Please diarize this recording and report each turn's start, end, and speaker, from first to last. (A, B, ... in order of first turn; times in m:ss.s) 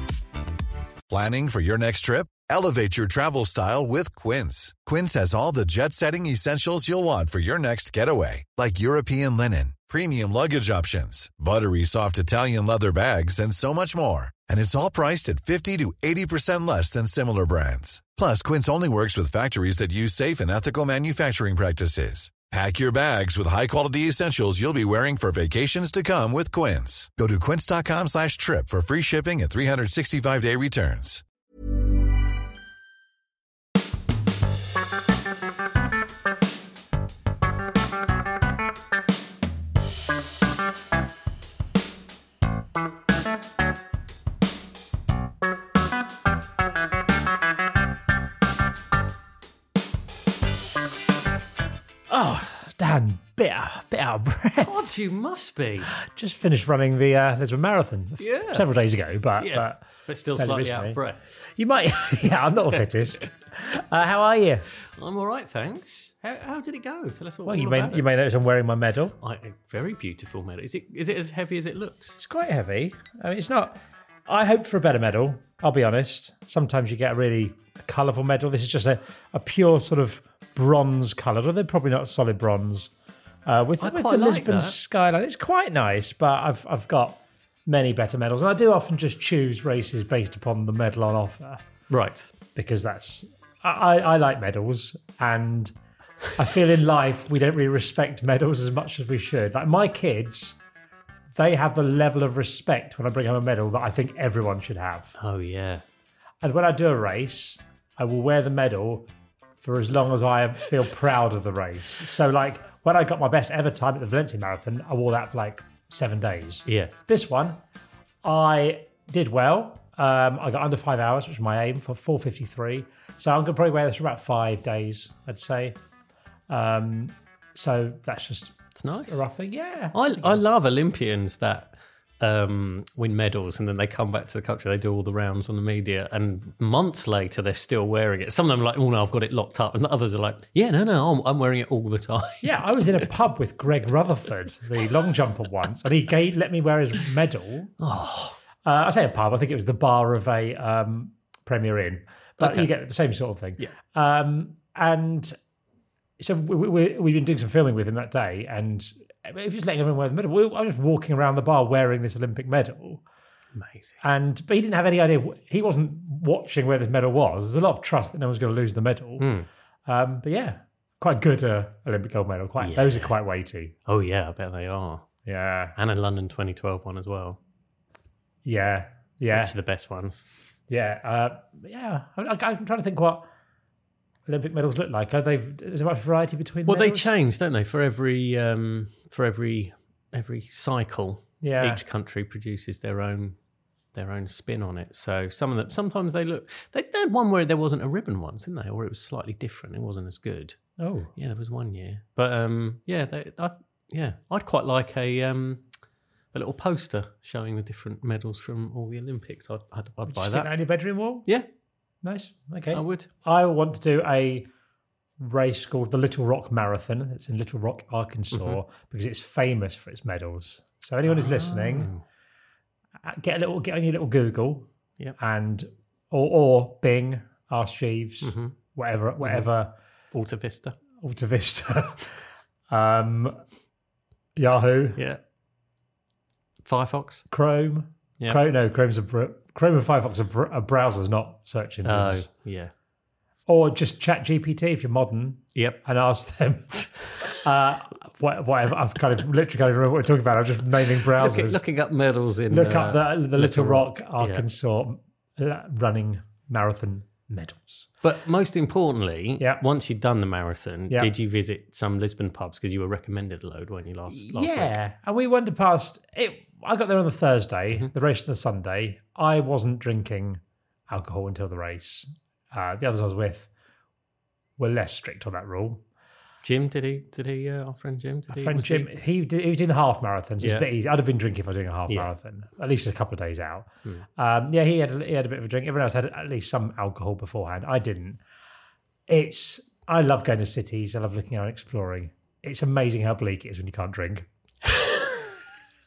0:01.1-0:31.2 A
0:52.1-0:54.9 B
0:54.6-0:55.9 C
0:55.9-1:04.6 B
0:58.2-0:58.7 C
0:59.4-1:01.2 C
1:04.9-1:08.0 C
1:07.4-1:09.2 B
1:09.2-1:12.2 C
1:12.2-1:22.9 B
1:23.4-1:31.6 B
1:23.8-1:24.8 C
1:31.9-1:32.3 C
1:32.5-1:35.7 B
1:36.3-1:40.6 B
1:41.3-1:45.1 B
1:45.2-1:45.8 C
1:46.4-1:57.6 B
1:56.6-1:56.9 C
1:58.2-2:05.8 B
2:06.5-2:08.6 B
2:08.8-2:09.2 C
2:09.1-2:10.4 B
2:09.9-2:22.6 C
2:22.4-2:27.7 B
2:27.8-2:28.4 C
2:28.6-2:35.4 B
2:32.4-2:32.7 C
2:36.2-2:43.0 B
2:43.5-2:44.0 C
2:44.0-2:49.3 B
2:49.2-2:49.5 C
2:49.9-2:53.7 B
2:52.6-2:53.1 C
2:53.8-2:55.1 C
2:55.2-2:55.7 B
2:55.8-2:57.4 C
2:58.4-2:59.5 B
2:59.3-3:00.2 C
3:00.7-3:03.3 B
3:04.2-3:07.1 B
3:06.6-3:13.4 C
3:11.4-3:11.8 B
3:13.9-3:20.6 C
3:20.8-3:21.1 B
3:21.1-3:25.7 C
3:26.3-3:30.6 C
3:30.1-3:31.3 B
3:32.0-3:34.5 B
3:32.7-3:33.1 C
3:35.2-3:41.9 B
3:38.3-3:38.6 C
3:41.0-3:42.0 C
3:43.0-3:49.7 B
3:48.2-3:48.5 C
3:49.2-3:49.5 C
3:50.1-3:50.8 C
3:51.0-3:53.4 B
3:54.4-3:55.0 B
3:55.0-3:55.2 C
3:56.6-3:57.3 C
3:57.3-4:02.3 B
4:01.8-4:02.7 C
4:03.5-4:11.6 B
4:05.5-4:05.8 C
4:11.2-4:14.4 C
4:12.5-4:17.9 B
4:18.0-4:24.8 C
4:24.1-4:33.5 B
4:34.6-4:35.8 B
4:36.4-4:38.9 C
4:38.3-4:48.2 B
4:40.4-4:40.6 C
4:49.1-4:54.3 B
4:54.7-4:55.0 C